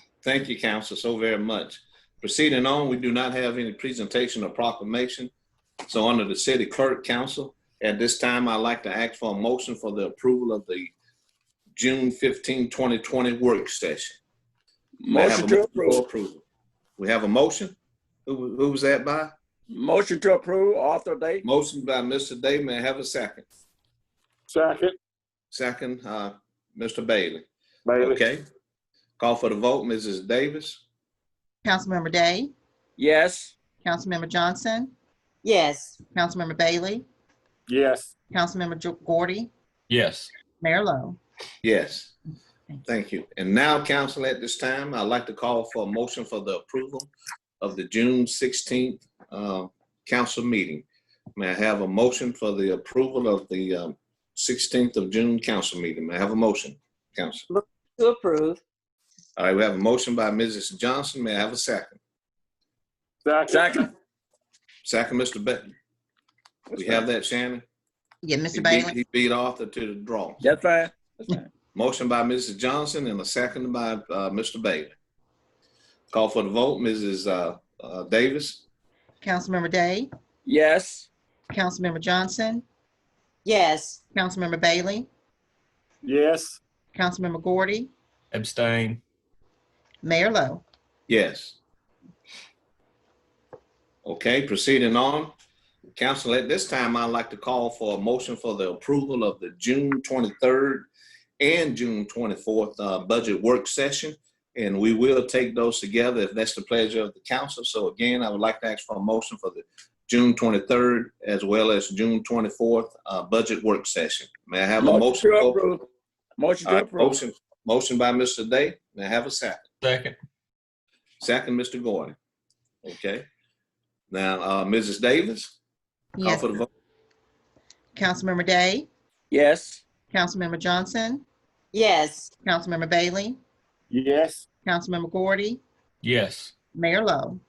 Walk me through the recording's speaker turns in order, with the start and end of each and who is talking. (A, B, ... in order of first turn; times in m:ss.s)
0:00.2-0:05.3 A
0:05.9-0:10.9 A
0:11.8-0:14.2 A
0:15.0-0:16.0 B
0:15.1-0:16.4 A
0:17.0-0:17.8 A
0:18.3-0:19.3 A
0:19.7-0:21.4 B
0:21.4-0:23.5 A
0:24.5-0:25.0 C
0:25.5-0:27.5 A
0:27.9-0:28.2 C
0:28.0-0:28.4 A
0:29.2-0:30.8 A
0:31.6-0:32.5 D
0:33.0-0:33.5 B
0:33.8-0:34.9 D
0:35.4-0:36.0 E
0:36.2-0:37.1 D
0:37.7-0:38.1 C
0:38.3-0:39.5 D
0:39.9-0:40.3 F
0:40.6-0:41.2 D
0:41.6-0:42.1 A
0:42.9-0:47.1 A
0:47.6-0:50.8 A
0:51.4-0:57.5 A
0:57.5-0:58.6 E
0:59.4-1:02.0 A
1:03.2-1:03.9 C
1:03.5-1:03.9 B
1:04.8-1:05.7 A
1:06.7-1:07.0 B
1:06.8-1:07.6 A
1:08.2-1:09.0 D
1:08.5-1:10.4 A
1:10.4-1:11.5 B
1:11.7-1:14.9 A
1:16.1-1:18.6 A
1:19.2-1:20.1 D
1:20.5-1:21.1 B
1:21.5-1:22.6 D
1:23.4-1:24.0 E
1:24.2-1:25.1 D
1:26.0-1:26.6 C
1:27.0-1:27.9 D
1:28.3-1:29.0 F
1:30.0-1:30.6 D
1:31.1-1:31.6 A
1:34.0-1:35.3 A
1:36.0-1:40.9 A
1:41.4-1:55.6 A
1:54.8-1:55.8 B
1:56.4-1:57.2 B
1:56.6-1:59.6 A
1:59.8-2:00.2 F
2:01.2-2:02.2 A
2:02.8-2:03.2 A
2:04.1-2:05.6 A
2:06.2-2:06.6 D
2:06.2-2:06.7 A
2:08.0-2:08.9 D
2:09.3-2:09.8 B
2:10.1-2:11.2 D
2:11.7-2:12.3 E
2:12.4-2:13.4 D
2:13.9-2:14.4 C
2:14.6-2:15.6 D
2:16.0-2:16.5 F
2:16.8-2:17.4 D